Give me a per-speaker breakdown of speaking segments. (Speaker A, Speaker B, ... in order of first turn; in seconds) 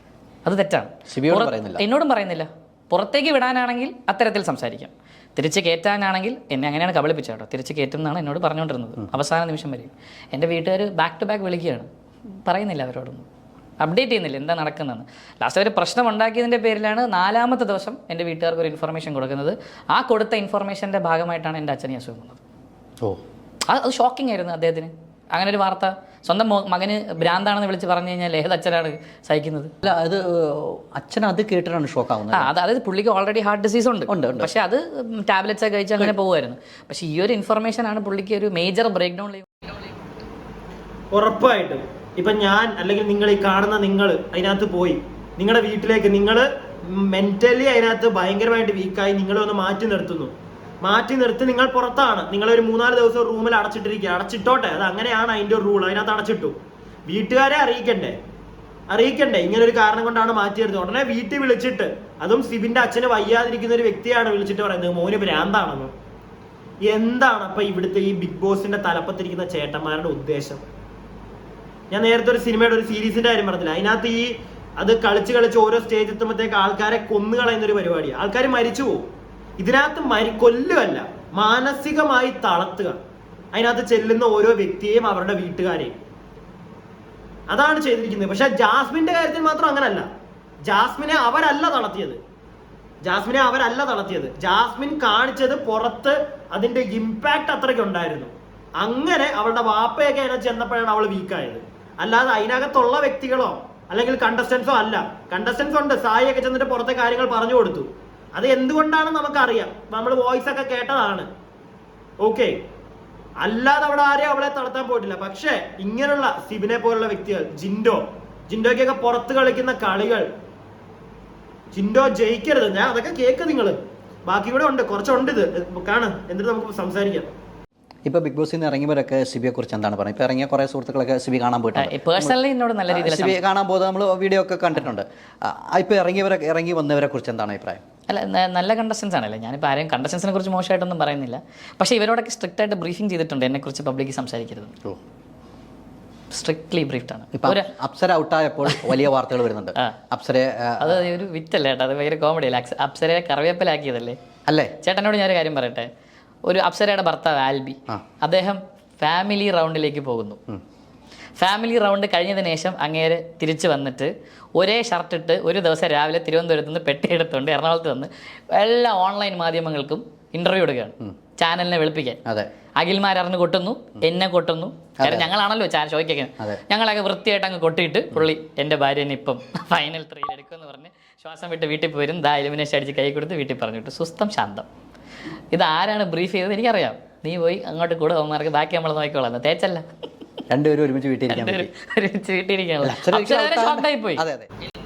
Speaker A: 0.4-11.9, 12.4-13.2, 13.8-22.4, 23.6-29.7, 32.3-39.5, 131.8-133.4, 138.1-144.7, 146.3-147.7, 148.7-149.1, 150.8-154.2, 154.8-155.9, 156.4-160.4, 161.4-172.2, 172.8-184.7, 185.5-189.8, 191.3-194.2
Speaker B: 1.1-1.8, 29.8-32.5, 34.1-34.5, 128.0-132.3, 132.9-137.8, 147.3-151.0, 154.5-154.7, 175.0-175.3, 190.5-191.7, 192.8-194.5
Speaker C: 41.1-56.5, 57.1-58.2, 58.9-65.9, 66.9-70.6, 71.9-79.1, 79.6-83.0, 83.5-86.0, 87.5-90.1, 90.6-92.2, 93.0-111.3, 112.2-112.5, 113.4-120.3, 121.7-127.3